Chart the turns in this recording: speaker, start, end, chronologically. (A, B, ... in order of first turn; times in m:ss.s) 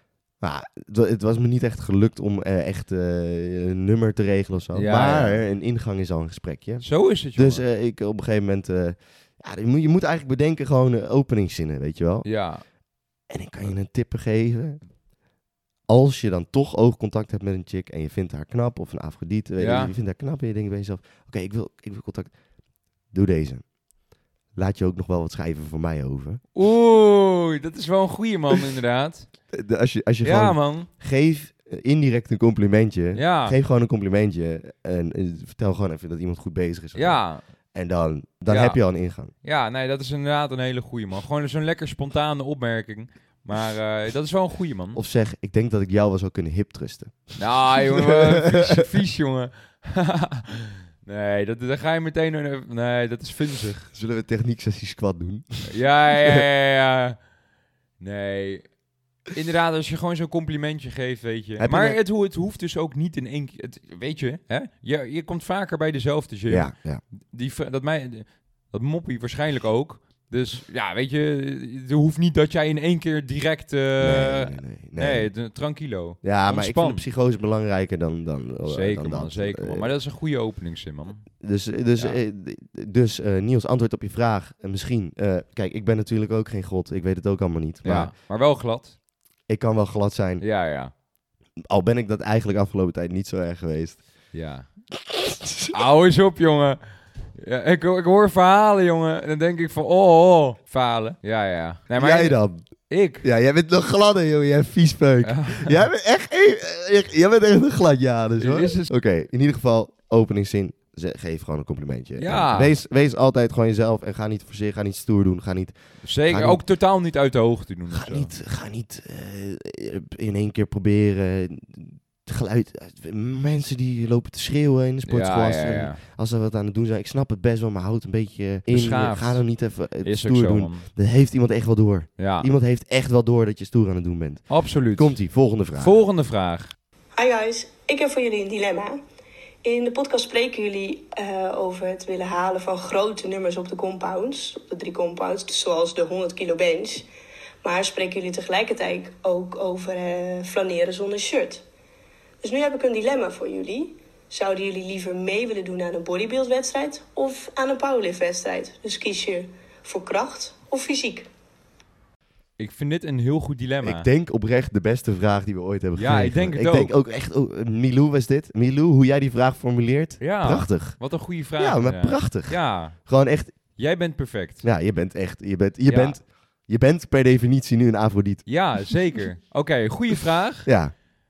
0:00.4-0:06.8 A
0:04.7-0:05.4 B
0:06.8-0:07.6 B
0:07.4-0:12.3 A
0:12.2-0:12.6 B
0:13.3-0:14.8 A
0:15.9-0:22.3 A
0:19.6-0:19.9 B
0:23.1-0:23.6 A
0:24.6-0:26.4 A
0:26.6-0:29.3 B
0:29.5-0:37.2 A
0:30.2-0:30.9 B
0:33.1-0:33.6 B
0:37.0-0:37.4 B
0:37.7-0:39.3 A
0:38.5-0:38.8 B
0:39.4-0:45.0 B
0:44.9-0:48.9 A
0:47.4-0:53.9 B
0:53.9-0:56.4 A
0:55.7-0:57.2 B
0:58.0-0:58.6 B
0:59.3-1:06.7 B
1:01.6-1:02.0 A
1:06.5-1:07.0 A
1:07.3-1:17.0 B
1:14.0-1:15.3 A
1:16.2-1:19.9 A
1:18.6-1:21.2 B
1:21.4-1:28.1 A
1:27.8-1:29.0 B
1:29.5-1:30.4 A
1:30.4-1:30.9 B
1:31.7-1:34.0 A
1:34.3-1:34.7 B
1:35.1-1:35.7 A
1:35.7-1:36.8 B
1:37.4-1:42.4 B
1:42.0-1:42.6 A
1:42.9-1:43.2 B
1:43.2-1:55.7 A
1:45.2-1:45.8 B
1:48.4-1:48.9 B
1:52.2-1:52.7 B
1:56.0-1:58.3 B
1:56.3-1:56.6 A
1:57.9-2:16.0 A
2:05.1-2:06.0 B
2:08.7-2:09.4 B
2:10.0-2:10.8 B
2:12.2-2:12.5 B
2:14.5-2:15.1 B
2:15.8-2:16.7 B
2:17.2-2:19.0 C
2:19.6-2:27.1 C
2:27.6-2:31.6 C
2:32.4-2:41.3 C
2:42.6-2:44.1 B
2:43.8-2:51.0 A
2:46.0-2:46.9 B
2:50.2-2:53.0 B
2:51.6-2:53.5 A
2:53.8-2:54.6 B
2:54.6-2:58.4 A
2:55.9-2:56.2 B
2:58.5-3:00.7 B
3:00.7-3:00.9 A